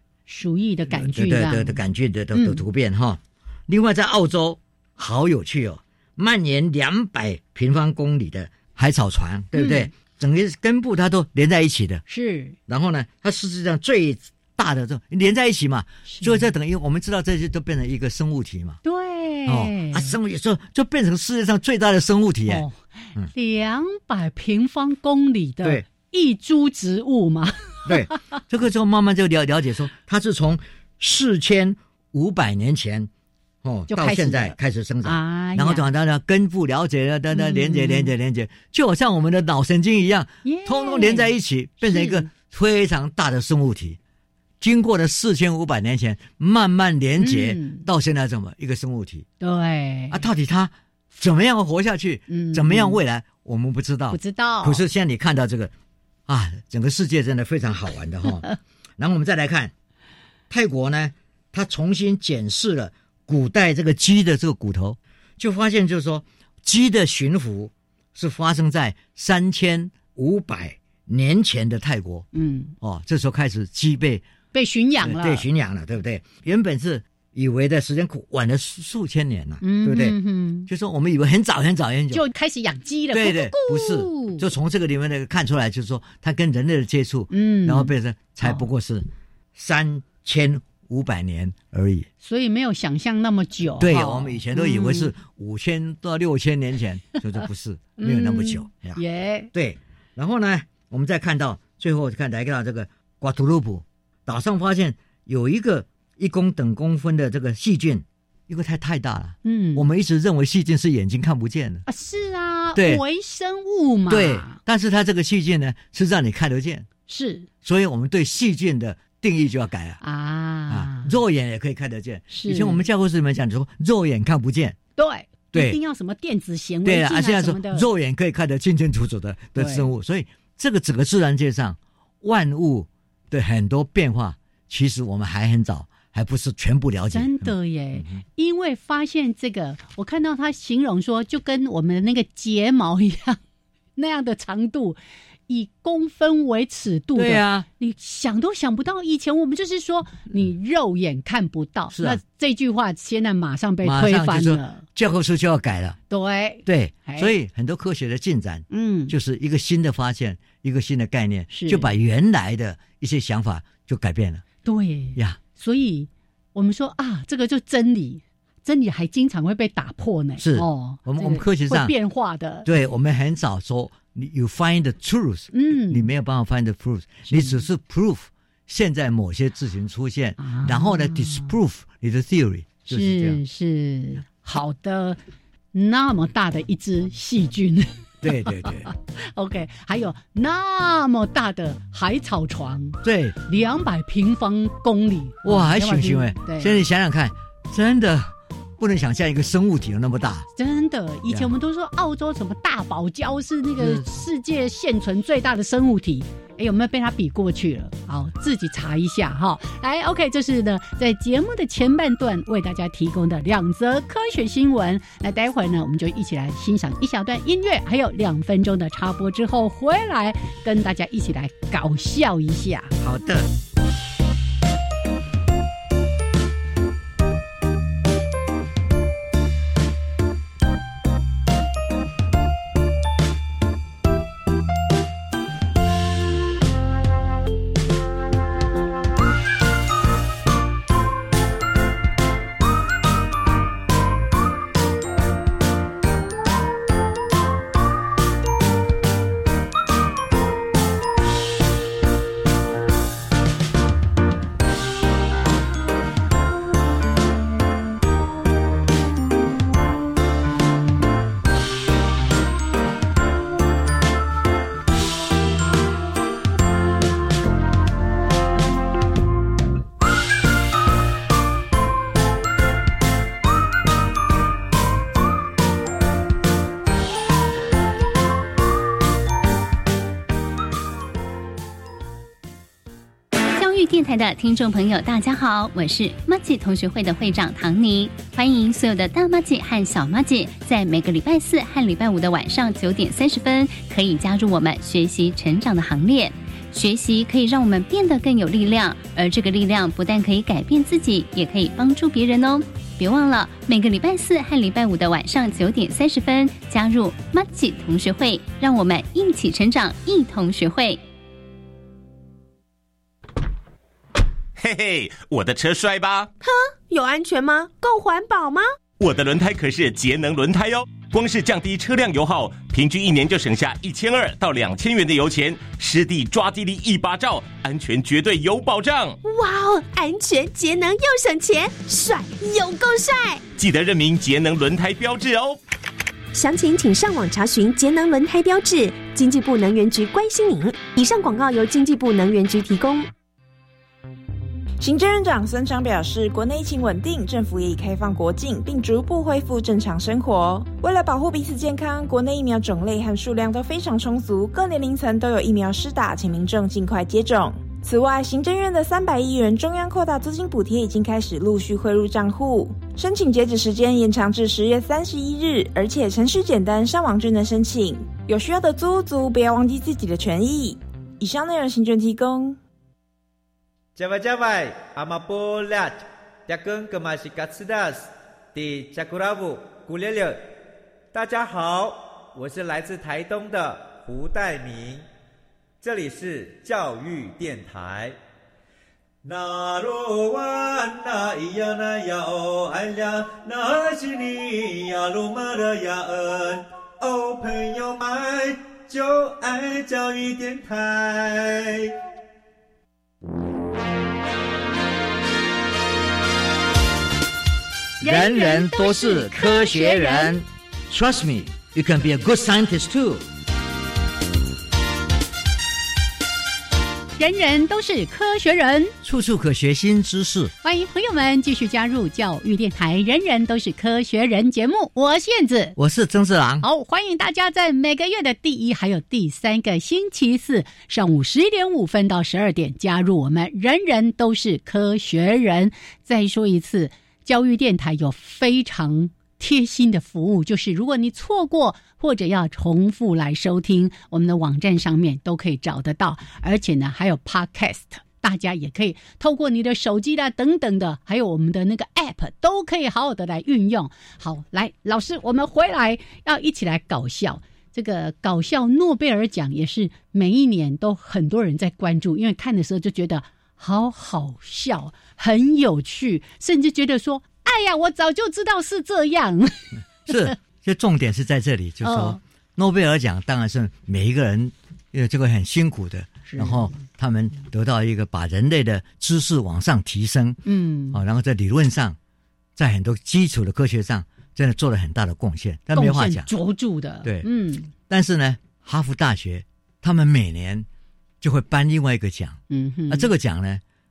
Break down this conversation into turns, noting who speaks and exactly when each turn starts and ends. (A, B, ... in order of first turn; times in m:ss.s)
0:00.3-0:01.8 A
0:00.9-0:12.0 B
0:02.3-0:02.6 A
0:09.6-0:09.9 A
0:12.1-0:12.6 A
0:12.7-0:18.8 B
0:16.1-0:16.4 A
0:18.8-0:20.2 A
0:19.5-0:23.3 B
0:22.5-0:22.8 A
0:23.3-0:28.2 A
0:27.9-0:33.1 B
0:33.6-0:44.0 B
0:33.9-0:35.9 A
0:37.3-0:38.1 A
0:40.4-0:42.3 A
0:44.6-0:49.3 B
0:47.2-0:47.8 A
0:49.4-0:50.2 A
0:50.1-0:55.7 B
0:52.3-0:53.0 A
0:54.1-0:54.8 A
0:56.3-0:58.5 B
0:59.0-0:59.7 B
1:00.5-1:12.3 B
1:12.3-1:12.8 A
1:12.8-1:14.2 B
1:14.5-1:15.5 A
1:15.0-1:22.2 B
1:19.6-1:20.7 A
1:22.1-1:24.5 A
1:23.1-1:32.1 B
1:27.3-1:28.7 A
1:32.2-1:35.1 A
1:33.8-1:39.0 B
1:38.0-1:39.5 A
1:39.5-1:51.8 B
1:49.4-1:49.8 A
1:51.9-1:54.6 A
1:52.8-1:53.0 B
1:54.1-1:56.9 B
1:57.1-1:57.5 A
1:57.6-2:00.0 B
2:00.0-2:01.2 A
2:00.7-2:04.8 B
2:02.3-2:02.8 A
2:05.0-2:07.9 A
2:05.5-2:05.8 B
2:06.8-2:18.2 B
2:09.6-2:09.9 A
2:17.1-2:23.4 A
2:24.0-2:34.8 A
2:27.2-2:27.7 B
2:31.9-2:32.2 B
2:33.8-2:36.0 B
2:36.1-2:37.3 A
2:36.7-2:44.4 B
2:38.7-2:39.2 A
2:41.5-2:41.9 A
2:44.6-2:52.7 A
2:50.4-2:51.9 B
2:52.6-3:03.4 B
2:55.5-2:56.1 A
2:57.3-2:57.6 A
3:00.4-3:01.6 A
3:02.9-3:05.2 A
3:05.7-3:16.8 A
3:08.2-3:08.9 B
3:13.0-3:13.4 B
3:15.4-3:20.5 B
3:20.6-3:43.0 A
3:23.8-3:24.0 B
3:43.0-3:43.5 B
4:43.5-5:11.0 C
5:14.6-5:16.3 D
5:16.4-5:18.7 E
5:19.0-5:29.2 D
5:29.2-5:33.4 E
5:33.6-5:35.6 D
5:36.3-5:43.1 E
5:44.8-6:12.6 F
6:14.0-6:20.5 G
6:21.1-6:25.0 G
6:25.8-6:28.2 G
6:29.2-6:41.9 G
6:48.0-6:50.4 A
6:48.0-6:53.2 B
6:57.2-6:59.0 A
6:59.0-7:00.5 B
7:00.6-7:05.8 A
7:05.8-7:06.6 B
7:06.6-7:50.3 A
7:50.1-8:00.4 B
7:51.8-7:52.2 A
7:56.3-7:56.8 A
8:00.5-8:01.0 A
8:00.9-8:02.0 B
8:02.6-8:06.3 B
8:05.7-8:07.7 A
8:07.8-8:10.7 B
8:11.2-8:13.6 B
8:12.5-8:13.1 A